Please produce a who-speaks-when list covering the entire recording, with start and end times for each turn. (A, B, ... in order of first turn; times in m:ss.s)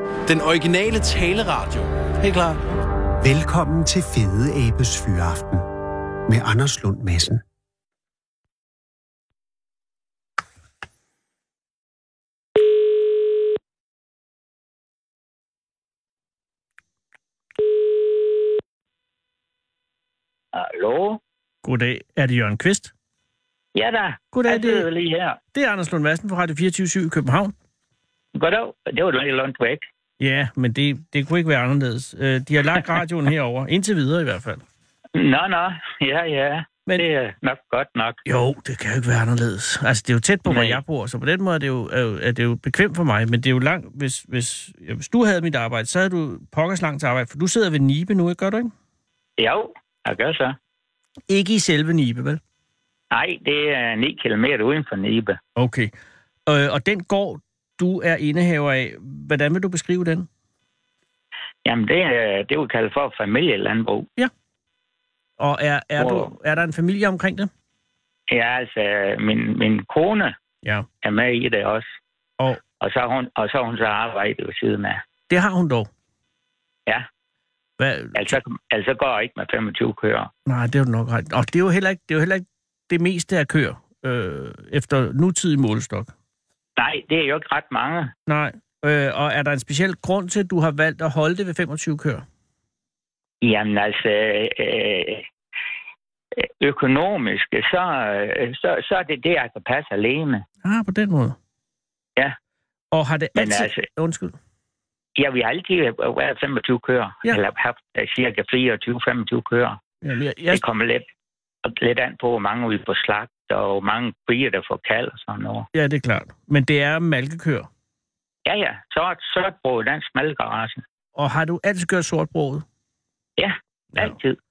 0:00.3-0:02.6 A
0:03.2-0:05.7 B
0:06.3-0:07.4 B
0:20.5-0:21.2 C
0:21.6-0:22.9 D
0:23.8-0:25.4 C
0:24.3-0:24.9 D
0:25.5-0:27.5 D
0:28.4-0:29.9 C
0:30.2-0:34.6 D
0:35.2-0:38.2 C
0:38.3-0:48.7 D
0:40.4-0:40.8 C
0:49.4-0:50.6 C
0:51.3-0:52.4 D
0:53.1-0:55.4 C
0:55.6-0:55.9 D
0:56.5-1:00.3 D
1:01.6-1:04.1 C
1:05.4-1:07.5 D
1:06.0-1:06.3 C
1:08.3-1:10.4 C
1:11.0-1:12.0 C
1:12.8-1:15.0 C
1:15.3-1:15.9 D
1:17.8-1:18.4 D
1:18.1-1:20.3 C
1:20.5-1:26.1 D
1:26.8-1:28.1 C
1:28.3-1:32.2 D
1:33.4-1:35.3 C
1:36.4-1:40.4 C
1:40.6-1:41.4 D
1:42.9-1:44.4 D
1:43.4-1:43.9 C
1:45.2-1:49.8 C
1:50.0-1:50.6 D
1:50.5-1:51.1 C
1:51.6-1:55.7 C
1:55.7-1:57.7 D
1:58.5-2:00.8 C
2:01.2-2:02.6 D
2:03.4-2:04.4 C